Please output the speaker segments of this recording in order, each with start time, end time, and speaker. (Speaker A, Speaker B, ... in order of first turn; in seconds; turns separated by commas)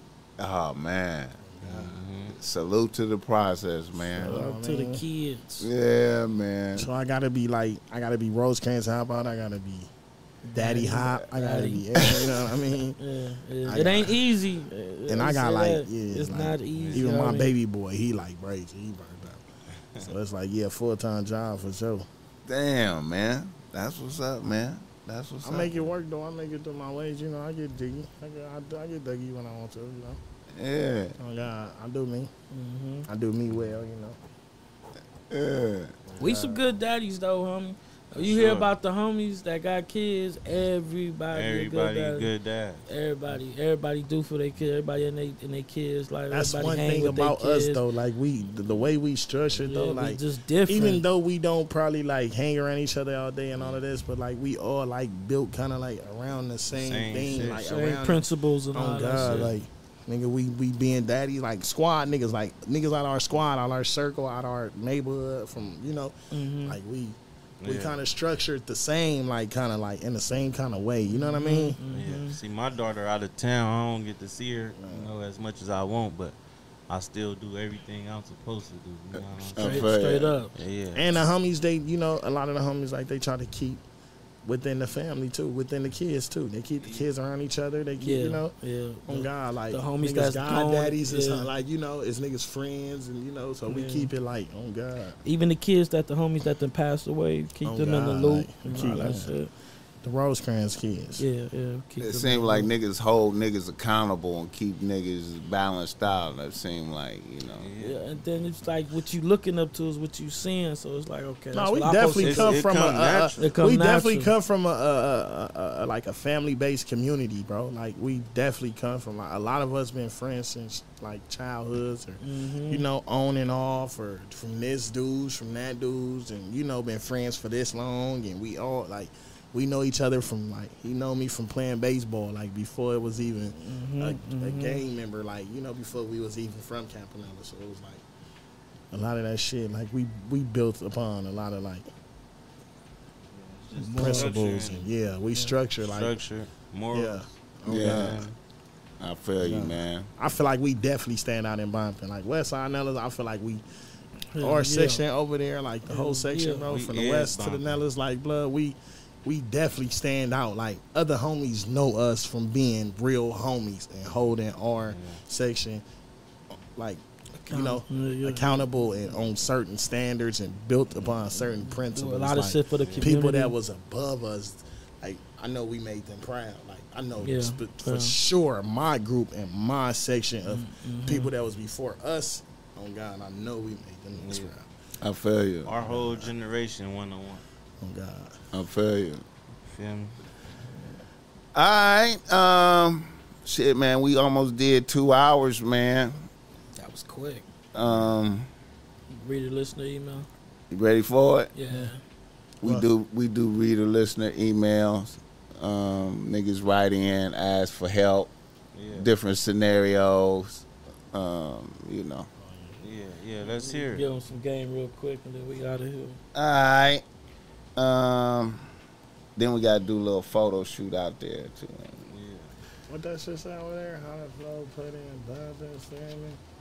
Speaker A: 0.4-1.4, Speaker B: 1.5-2.0, Speaker C: 1.6-2.4, Speaker A: 2.3-4.4, Speaker B: 4.2-5.0, Speaker D: 4.2-5.7, Speaker A: 5.6-6.9, Speaker B: 6.8-9.9, Speaker B: 10.5-13.0, Speaker D: 10.6-11.8, Speaker A: 11.9-12.4, Speaker D: 13.0-17.5, Speaker B: 13.7-14.2, Speaker B: 15.1-19.4, Speaker C: 16.8-17.0, Speaker B: 20.0-22.1, Speaker A: 22.5-25.9, Speaker B: 25.4-30.2, Speaker A: 30.6-31.2, Speaker B: 31.2-32.3, Speaker D: 32.5-33.1, Speaker B: 33.1-34.2, Speaker C: 33.5-33.8, Speaker A: 35.3-35.9, Speaker B: 36.1-36.6, Speaker D: 36.2-42.3, Speaker C: 38.2-38.7, Speaker C: 41.3-42.9, Speaker D: 42.9-47.8, Speaker B: 46.3-71.8, Speaker D: 49.6-51.0, Speaker C: 56.7-57.6, Speaker D: 57.5-59.5, Speaker C: 59.2-59.5, Speaker D: 66.3-66.8, Speaker C: 67.6-68.0, Speaker D: 71.1-72.4, Speaker C: 71.9-76.3, Speaker B: 74.8-75.1, Speaker C: 76.9-79.9, Speaker A: 79.4-80.3, Speaker D: 79.6-80.5, Speaker C: 80.5-81.0, Speaker B: 81.0-83.8, Speaker B: 84.5-88.5, Speaker C: 86.8-87.1, Speaker D: 88.0-91.5, Speaker B: 89.1-95.2, Speaker D: 93.7-94.1, Speaker D: 95.2-99.5, Speaker B: 97.7-99.3, Speaker B: 100.0-101.2, Speaker D: 101.2-102.7, Speaker A: 102.0-107.7, Speaker C: 107.6-108.0, Speaker D: 107.8-112.6, Speaker B: 111.5-138.0, Speaker C: 112.2-113.3, Speaker D: 113.4-114.3, Speaker D: 122.2-122.8, Speaker D: 133.6-134.8, Speaker B: 138.9-141.9, Speaker C: 143.5-144.9, Speaker D: 143.8-144.3, Speaker B: 143.8-146.1, Speaker C: 145.8-148.4, Speaker B: 146.9-148.2, Speaker A: 147.7-148.2, Speaker A: 149.0-150.1, Speaker B: 149.4-153.6, Speaker D: 154.3-155.0, Speaker B: 154.4-165.8, Speaker D: 155.9-156.6, Speaker C: 156.7-157.8, Speaker C: 164.9-165.2, Speaker B: 166.8-184.7, Speaker D: 167.5-168.7, Speaker D: 171.6-173.5, Speaker C: 172.8-173.1, Speaker D: 177.2-178.2, Speaker D: 180.5-181.3, Speaker C: 184.2-184.5, Speaker A: 185.0-185.7, Speaker C: 185.7-187.4, Speaker B: 185.8-186.3, Speaker B: 187.8-188.4, Speaker A: 188.5-189.2, Speaker C: 189.7-190.2, Speaker A: 191.5-196.2, Speaker D: 196.8-197.4, Speaker A: 197.8-198.5, Speaker C: 197.8-198.1, Speaker D: 199.1-200.3, Speaker A: 200.7-201.5, Speaker D: 201.6-202.0, Speaker A: 202.6-208.3, Speaker C: 208.7-209.1, Speaker A: 208.9-212.3, Speaker B: 212.4-212.8, Speaker C: 212.8-214.1, Speaker D: 213.4-216.2, Speaker A: 216.3-217.0, Speaker A: 217.8-218.7, Speaker A: 219.4-222.0, Speaker C: 222.1-222.5, Speaker B: 222.9-226.4